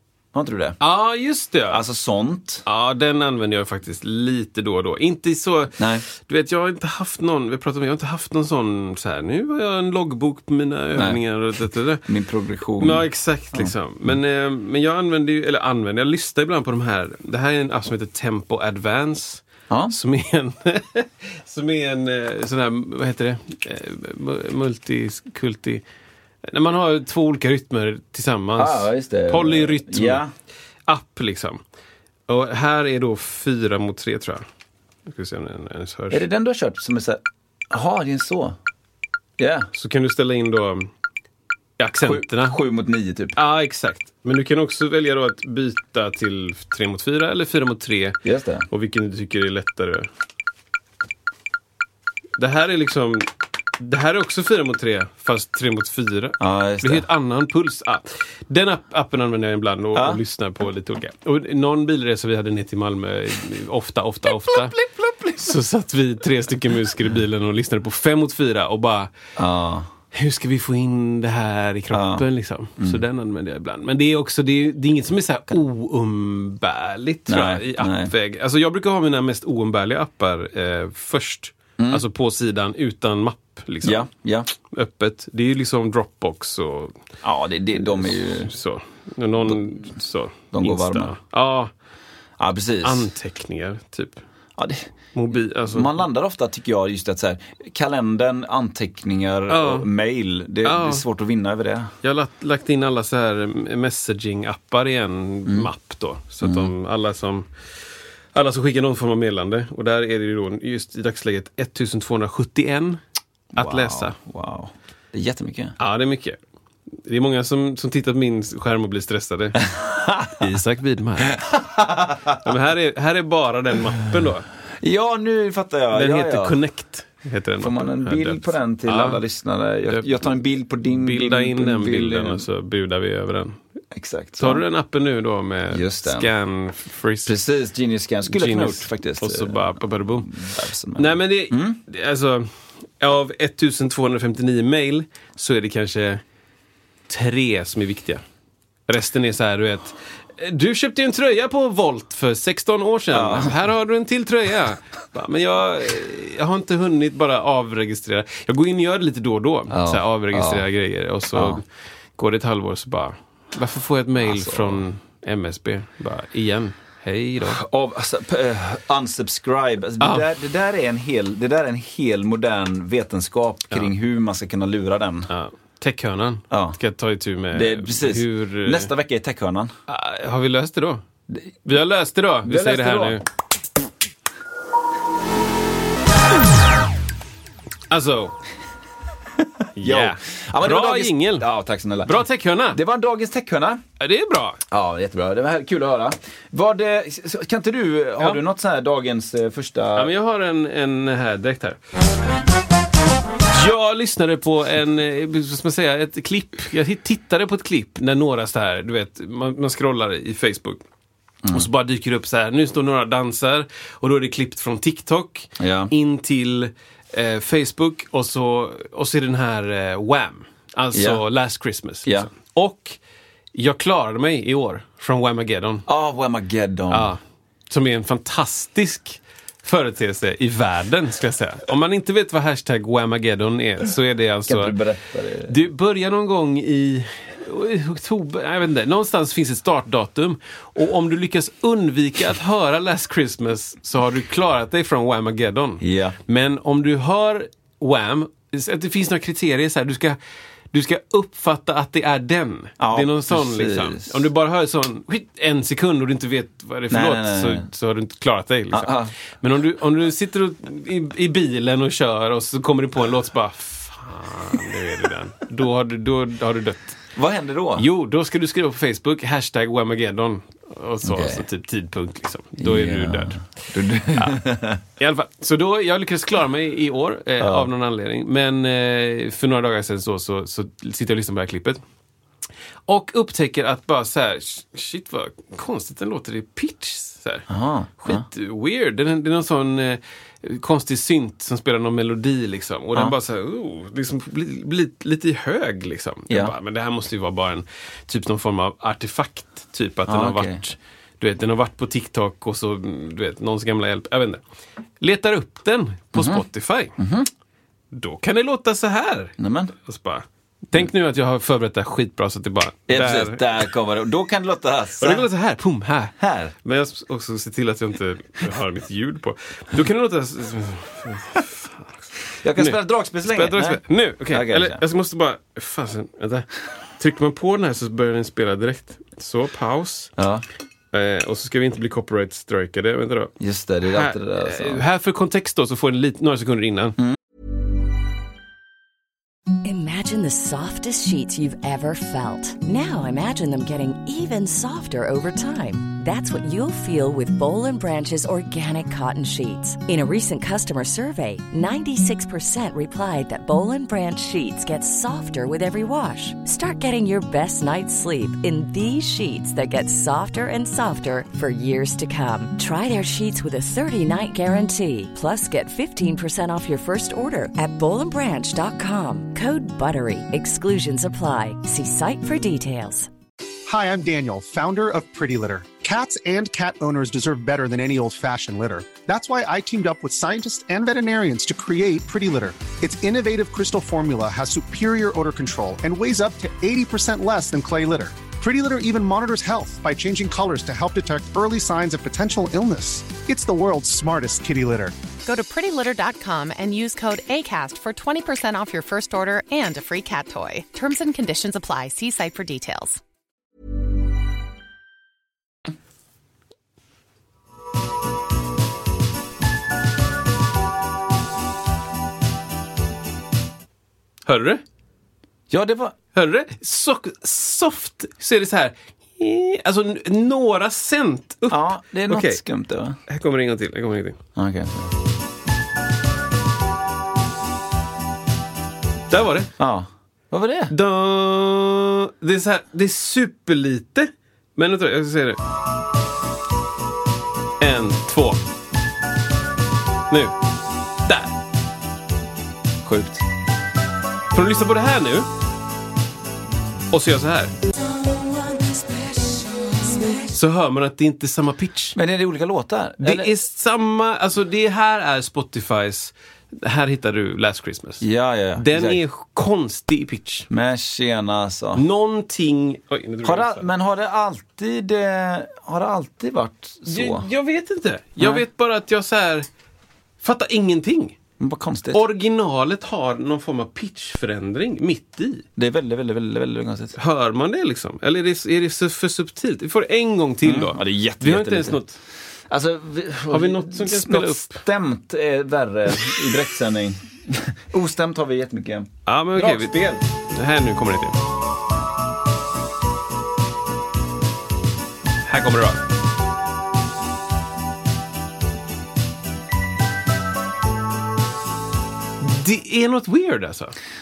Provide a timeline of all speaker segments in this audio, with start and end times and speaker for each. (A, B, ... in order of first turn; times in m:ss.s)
0:00.3-0:00.8 A
0:00.8-0:01.8 B
0:01.7-0:02.6 A
0:02.7-0:12.0 B
0:05.8-0:06.0 A
0:12.1-0:13.7 A
0:12.8-0:25.8 B
0:26.5-0:30.2 B
0:28.6-0:30.3 A
0:30.9-0:31.6 B
0:32.3-0:34.4 B
0:35.1-0:36.2 B
0:36.1-0:38.6 A
0:39.4-0:39.7 A
0:39.7-0:40.9 B
0:41.8-0:42.6 B
0:42.0-0:43.4 A
0:43.4-0:48.2 B
0:48.2-0:48.7 A
0:48.7-0:50.1 B
0:52.4-1:04.8 B
0:56.4-0:57.1 A
1:00.0-1:00.2 A
1:04.3-1:05.5 A
1:05.4-1:09.1 B
1:09.4-1:09.9 A
1:10.1-1:24.1 B
1:11.9-1:12.2 A
1:17.3-1:18.1 A
1:21.8-1:22.0 A
1:23.8-1:24.5 A
1:24.7-1:27.0 B
1:27.2-1:28.5 A
1:27.8-1:31.7 B
1:30.5-1:31.1 A
1:32.4-1:33.1 A
1:32.8-1:34.2 B
1:34.6-1:34.9 A
1:35.1-1:35.9 B
1:35.7-1:41.9 A
1:39.5-1:39.9 B
1:40.6-1:41.0 B
1:42.0-1:47.5 B
1:46.4-1:46.7 A
1:48.3-1:53.0 B
1:53.6-1:54.2 B
1:53.6-1:55.8 A
1:55.8-1:56.4 B
1:57.0-1:59.7 B
1:59.8-2:00.6 A
2:00.4-2:01.5 B
2:01.5-2:02.4 A
2:02.3-2:04.5 B
2:04.8-2:06.6 A
2:05.9-2:09.2 B
2:07.6-2:12.5 A
2:10.9-2:13.6 B
2:13.9-2:14.6 A
2:14.4-2:17.3 B
2:15.7-2:16.3 A
2:17.3-2:21.8 A
2:18.3-2:20.3 B
2:21.0-2:26.2 B
2:27.1-2:28.2 B
2:28.9-2:41.6 B
2:33.1-2:33.5 A
2:39.7-2:40.6 A
2:41.3-2:41.6 A
2:42.2-2:47.6 B
2:44.2-2:44.8 A
2:47.4-2:55.3 A
2:50.0-2:50.3 B
2:55.3-2:58.9 B
2:56.5-2:56.8 A
2:57.5-2:59.7 A
2:59.9-3:01.0 B
3:01.6-3:03.2 B
3:02.4-3:03.2 A
3:07.9-3:08.4 B
3:09.8-3:12.2 A
3:09.8-3:11.5 B
3:12.0-3:12.8 B
3:12.7-3:13.8 A
3:14.0-3:14.6 B
3:14.7-3:20.1 A
3:20.0-3:21.8 B
3:23.5-3:30.8 B
3:31.5-3:43.0 B
3:35.6-3:35.9 A
3:40.9-3:41.2 A
3:43.6-3:45.9 B
3:45.9-3:47.1 A
3:46.9-3:54.8 B
3:54.5-3:55.5 A
3:55.5-4:10.2 B
4:05.8-4:06.2 A
4:10.7-4:27.0 B
4:12.8-4:14.1 A
4:16.9-4:17.7 A
4:18.7-4:19.1 A
4:27.2-4:27.9 A
4:27.8-4:33.5 B
4:31.0-4:31.4 A
4:32.6-4:34.8 A
4:35.0-4:41.8 B
4:37.4-4:37.7 A
4:42.9-4:47.5 B
4:47.5-4:48.2 A
4:48.0-5:04.4 B
4:56.3-4:56.6 A
5:00.1-5:00.6 A
5:05.0-5:07.0 B
5:06.2-5:06.4 A
5:07.0-5:07.3 A
5:07.9-5:09.4 B
5:09.4-5:09.7 A
5:09.9-5:13.7 B
5:12.9-5:15.3 A
5:15.0-5:22.0 B
5:16.2-5:16.5 A
5:22.4-5:24.8 A
5:22.6-5:30.1 B
5:30.2-5:30.4 A
5:30.9-5:33.3 B
5:33.4-5:34.8 A
5:33.9-5:37.0 B
5:39.6-6:13.1 C
6:13.7-6:34.9 D
6:35.2-6:43.0 E
6:54.3-6:54.6 B
6:55.5-6:56.0 A
6:56.2-7:02.4 B
7:01.5-7:03.0 A
7:03.1-7:04.2 B
7:04.4-7:04.9 A
7:09.1-7:09.5 B
7:09.6-7:10.7 A
7:10.7-7:15.4 B
7:17.6-7:18.4 B
7:21.0-7:21.3 B
7:22.8-7:23.2 A
7:24.3-7:25.3 B
7:26.9-7:27.5 B
7:30.2-7:32.0 B
7:32.0-7:33.3 A
7:33.0-7:40.5 B
7:38.0-7:39.0 A
7:40.5-7:41.8 A
7:41.8-7:43.7 B
7:43.2-7:47.3 A
7:46.9-7:49.5 B
7:48.2-7:48.4 A
7:50.2-7:51.2 B
7:51.4-7:52.0 A
7:51.9-7:55.4 B
7:55.6-7:57.0 A
7:57.0-8:02.0 B
8:00.4-8:01.8 A
8:02.5-8:10.0 A
8:03.3-8:04.6 B
8:09.1-8:11.2 B
8:15.3-8:15.8 B
8:22.2-8:23.8 B